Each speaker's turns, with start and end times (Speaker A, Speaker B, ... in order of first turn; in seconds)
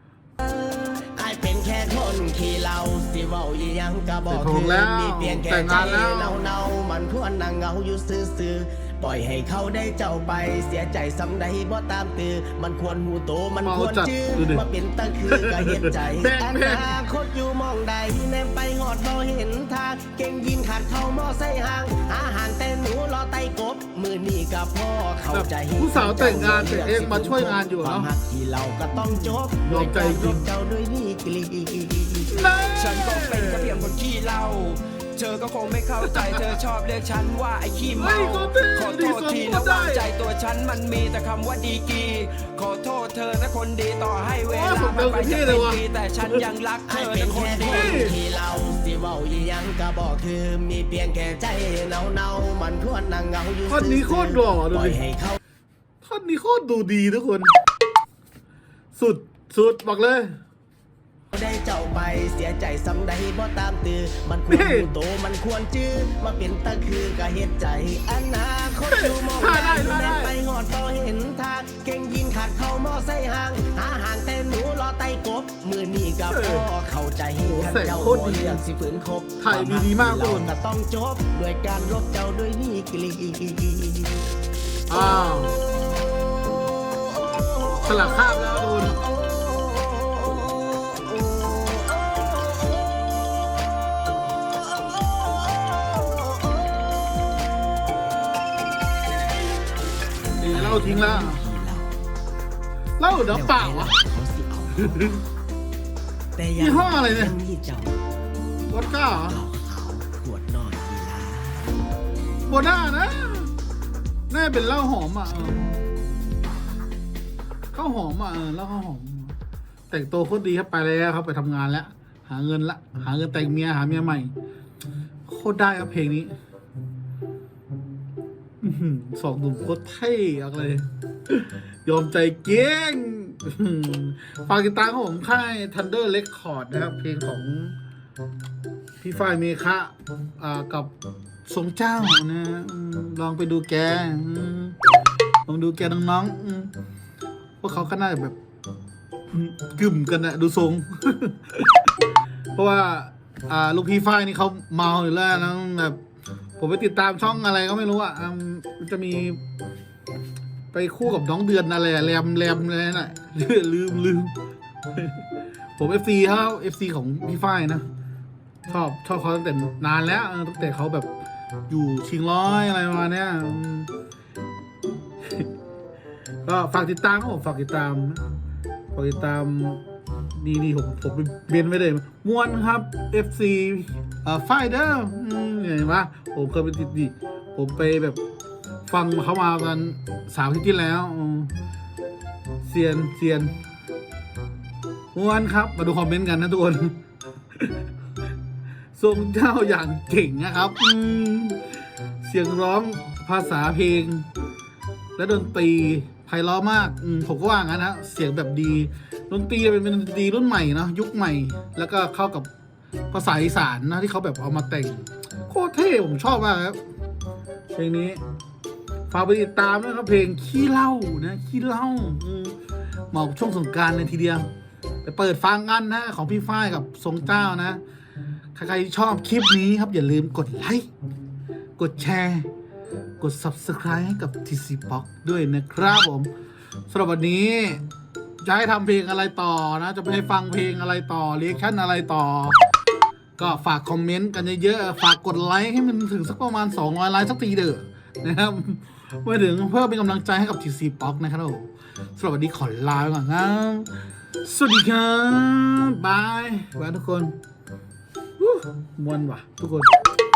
Speaker A: 1.0-32.5, 46.9-55.4, 61.3-84.2, 84.9-85.4, 86.8-97.2, 100.5-102.0, 103.3-105.2, 106.4-108.0, 109.2-111.7
Speaker B: 4.3-6.4, 13.6-14.7, 15.3-17.0, 25.3-28.1, 28.9-30.4, 32.3-33.8, 36.0-36.6, 38.0-40.1, 44.5-46.4, 47.6-48.1, 53.7-55.0, 56.0-57.5, 59.0-60.4, 64.5-64.9, 68.9-70.4, 76.3-76.7, 77.4-78.6, 79.4-80.5, 84.9-85.5, 87.8-89.0, 100.4-101.4, 103.0-103.9, 104.9-105.1, 106.6-107.4, 108.7-109.4, 112.5-113.5, 114.3-115.9, 117.7-119.4, 119.9-124.3, 125.3-126.3, 128.6-137.8, 139.0-140.9, 141.5-144.8, 145.5-146.7, 147.6-148.4, 149.3-151.9, 152.6-156.0, 156.6-159.4, 160.7-164.3, 164.9-165.2, 165.8-167.8, 168.7-171.1, 171.7-173.9, 176.5-178.2, 178.9-179.8, 180.3-188.2, 188.9-191.5, 192.6-193.6, 195.2-197.0, 199.0-201.6, 202.2-204.3, 205.2-212.5, 213.1-216.8, 217.7-218.2, 219.1-222.6, 223.1-224.5, 225.0-227.8, 228.6-230.9, 231.8-232.5, 233.2-236.3, 236.9-237.8, 238.4-242.6, 243.4-253.9, 254.4-257.3, 258.4-259.9
Speaker C: 32.6-48.1